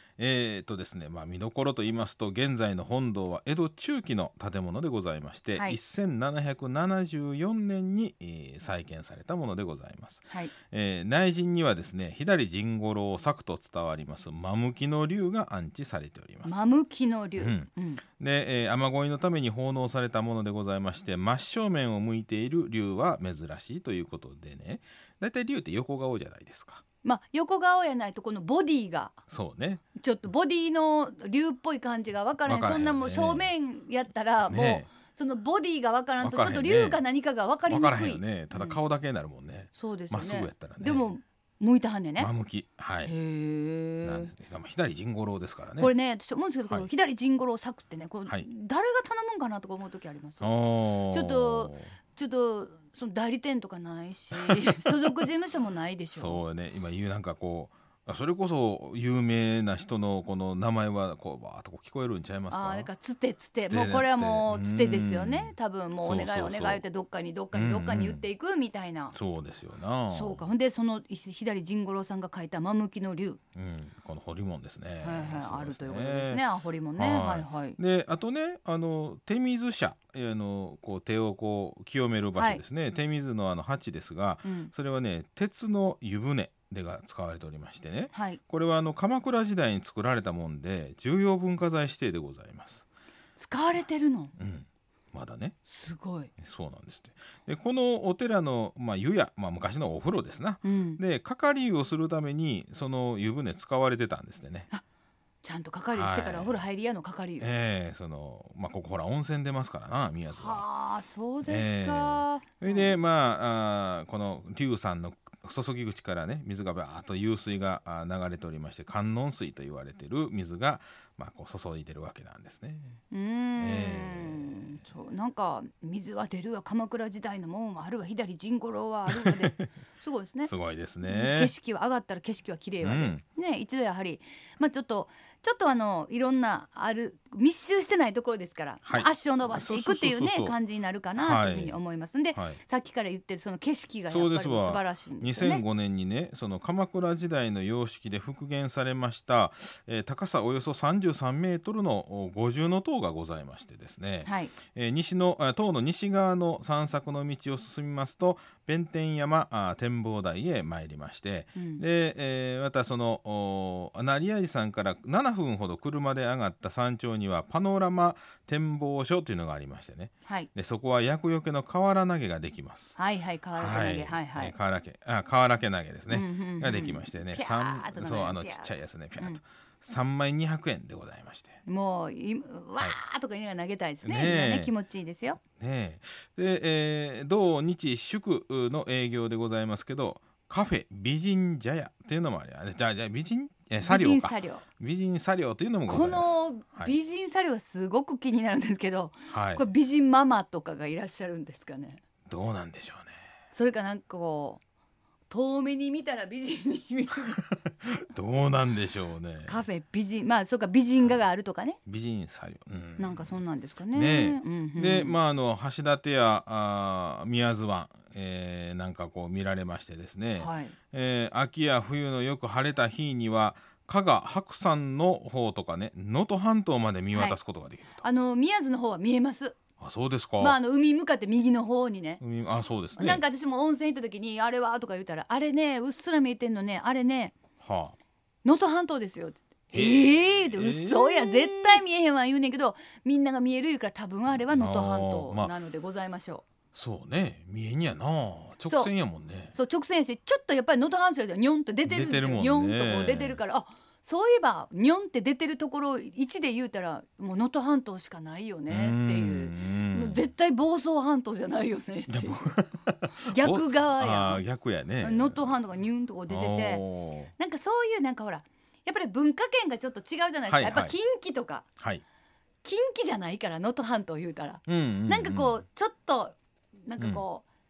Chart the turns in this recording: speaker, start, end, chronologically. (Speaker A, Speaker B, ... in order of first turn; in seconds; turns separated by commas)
Speaker A: 0.2-16.6, Speaker B: 16.4-18.0, Speaker A: 17.4-26.8, Speaker B: 27.0-29.2, Speaker A: 29.3-29.8, Speaker B: 29.9-38.8, Speaker A: 32.5-33.5, Speaker A: 34.5-34.9, Speaker A: 36.2-37.0, Speaker A: 37.7-41.0, Speaker B: 39.7-42.3, Speaker A: 42.2-43.1, Speaker B: 43.0-44.3, Speaker A: 44.0-45.9, Speaker B: 45.8-50.5, Speaker A: 50.4-51.9, Speaker B: 51.1-56.4, Speaker A: 54.3-55.0, Speaker A: 56.1-62.9, Speaker B: 62.5-69.1, Speaker A: 63.6-66.8, Speaker A: 67.5-68.2, Speaker A: 69.1-70.4, Speaker B: 70.1-73.4, Speaker A: 73.5-76.4, Speaker B: 75.0-77.8, Speaker A: 77.0-92.8, Speaker B: 82.3-82.6, Speaker B: 84.4-84.7, Speaker B: 88.1-88.4, Speaker B: 93.4-94.3, Speaker A: 94.4-95.5, Speaker B: 95.6-96.3, Speaker A: 96.4-104.7, Speaker B: 100.6-101.0, Speaker B: 105.4-107.5, Speaker A: 105.9-106.6, Speaker A: 107.4-110.6, Speaker B: 110.3-113.0, Speaker A: 111.4-123.0, Speaker B: 123.1-130.5, Speaker A: 123.6-124.8, Speaker A: 129.2-129.6, Speaker A: 130.4-131.5, Speaker B: 131.0-145.6, Speaker A: 132.8-133.2, Speaker A: 138.8-140.6, Speaker A: 141.2-141.8, Speaker A: 142.3-142.6, Speaker A: 144.1-173.0, Speaker B: 154.2-154.6, Speaker B: 161.6-161.8, Speaker B: 172.9-174.5, Speaker A: 173.6-181.6, Speaker B: 176.1-179.4, Speaker B: 181.7-185.4, Speaker A: 184.0-184.7, Speaker A: 185.6-196.9, Speaker B: 193.8-194.6, Speaker B: 195.9-202.0, Speaker A: 199.3-199.7, Speaker A: 202.3-203.1, Speaker B: 203.5-204.6, Speaker B: 205.3-207.4, Speaker A: 207.4-209.6, Speaker B: 209.5-211.8, Speaker A: 211.8-228.0, Speaker B: 213.0-215.2, Speaker B: 220.4-220.7, Speaker B: 227.1-227.4, Speaker B: 228.0-229.6, Speaker A: 229.8-230.6, Speaker B: 230.4-232.2, Speaker A: 232.2-233.2, Speaker B: 232.9-237.3, Speaker A: 237.6-238.0, Speaker B: 238.4-246.4, Speaker A: 239.7-241.8, Speaker A: 244.5-245.5, Speaker A: 246.7-249.5, Speaker B: 249.5-262.5, Speaker A: 251.9-253.4, Speaker A: 258.7-260.2, Speaker A: 262.1-265.6, Speaker B: 263.2-264.4, Speaker B: 265.0-266.8, Speaker A: 266.3-267.3, Speaker B: 267.4-271.6, Speaker A: 270.5-270.9, Speaker B: 272.6-277.4, Speaker A: 274.7-275.6, Speaker A: 277.0-277.2